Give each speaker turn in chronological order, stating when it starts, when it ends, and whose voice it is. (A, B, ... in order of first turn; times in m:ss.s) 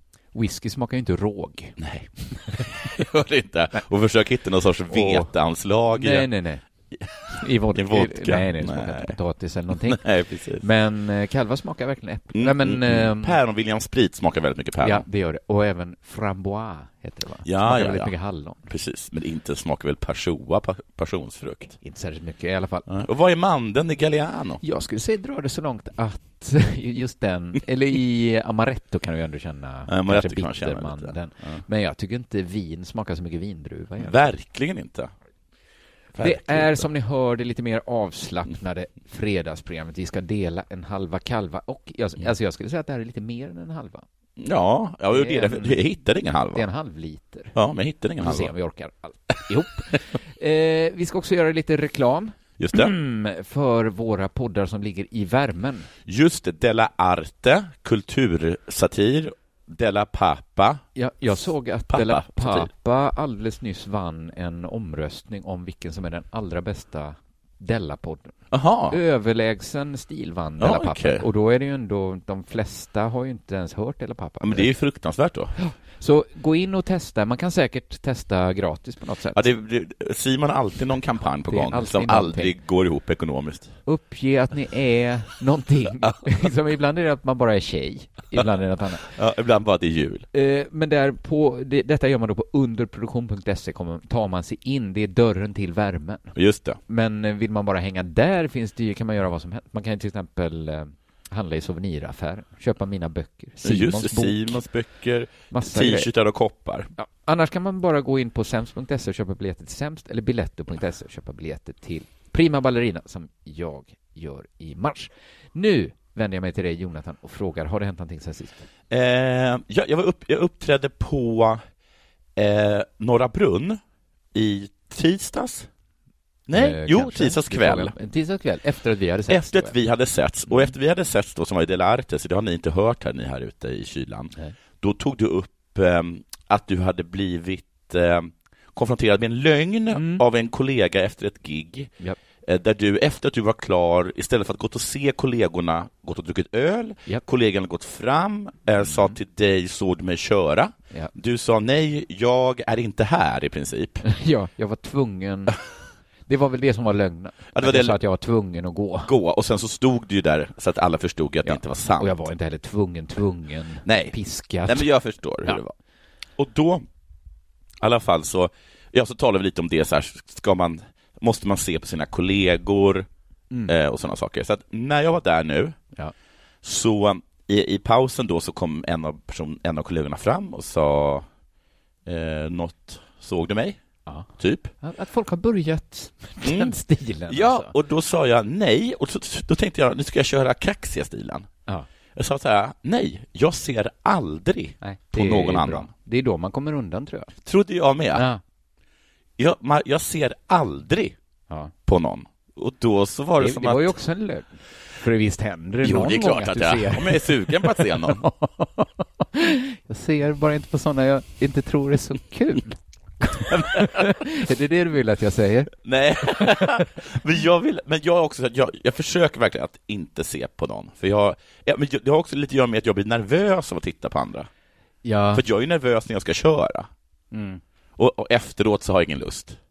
0:00.3-0:01.8 A
0:01.8-0:06.3 B
0:04.9-0:05.3 A
0:06.0-0:06.6 A
0:07.3-0:10.0 A
0:07.7-0:09.2 B
0:09.8-0:10.6 B
0:10.6-0:13.4 A
0:12.3-0:15.0 B
0:14.8-0:18.7 A
0:17.4-0:18.1 B
0:18.7-0:21.8 B
0:21.8-0:22.9 A
0:22.9-0:24.6 B
0:24.6-0:34.2 A
0:29.9-0:31.6 B
0:34.0-0:35.1 B
0:36.1-0:36.9 B
0:36.2-0:44.0 A
0:44.4-0:46.6 B
0:45.1-0:45.8 A
0:46.5-0:47.6 A
0:47.6-0:48.5 B
0:48.2-0:55.9 A
0:52.6-0:53.0 B
0:56.1-1:00.8 B
1:01.0-1:08.4 A
1:01.9-1:02.7 B
1:08.5-1:09.0 B
1:08.9-1:14.7 A
1:10.6-1:11.2 B
1:14.4-1:15.5 B
1:15.6-1:19.5 A
1:19.3-1:23.7 B
1:21.5-1:22.6 A
1:23.9-1:29.1 A
1:29.1-1:30.3 B
1:30.3-1:36.4 A
1:36.4-1:36.8 B
1:36.9-1:44.6 A
1:43.6-1:46.9 B
1:45.5-1:46.1 A
1:47.0-1:58.7 A
1:58.9-2:01.6 B
2:02.4-2:03.8 B
2:04.3-2:05.7 B
2:06.5-2:07.9 B
2:06.5-2:09.8 A
2:09.3-2:21.9 B
2:19.9-2:20.2 A
2:22.4-2:34.0 B
2:28.8-2:29.2 A
2:34.0-2:35.6 A
2:36.3-2:39.1 A
2:37.5-2:38.0 B
2:39.1-2:42.1 B
2:41.4-2:44.9 A
2:43.8-2:44.2 B
2:44.7-2:45.7 B
2:46.4-2:46.9 B
2:47.8-2:53.1 B
2:53.7-2:55.8 B
2:56.6-3:01.3 B
3:02.1-3:03.8 B
3:04.4-3:04.7 B
3:04.8-3:07.7 A
3:06.4-3:06.8 B
3:07.3-3:11.5 B
3:12.2-3:15.9 B
3:14.8-3:17.3 A
3:17.4-3:18.2 B
3:18.1-3:18.4 A
3:19.4-3:21.2 B
3:21.9-3:23.9 B
3:23.4-3:35.7 A
3:25.8-3:28.2 B
3:33.5-3:34.1 B
3:35.8-3:44.5 B
3:36.3-3:36.9 A
3:45.0-3:45.4 A
3:45.3-3:46.9 B
3:47.3-3:47.6 A
3:48.0-3:49.6 B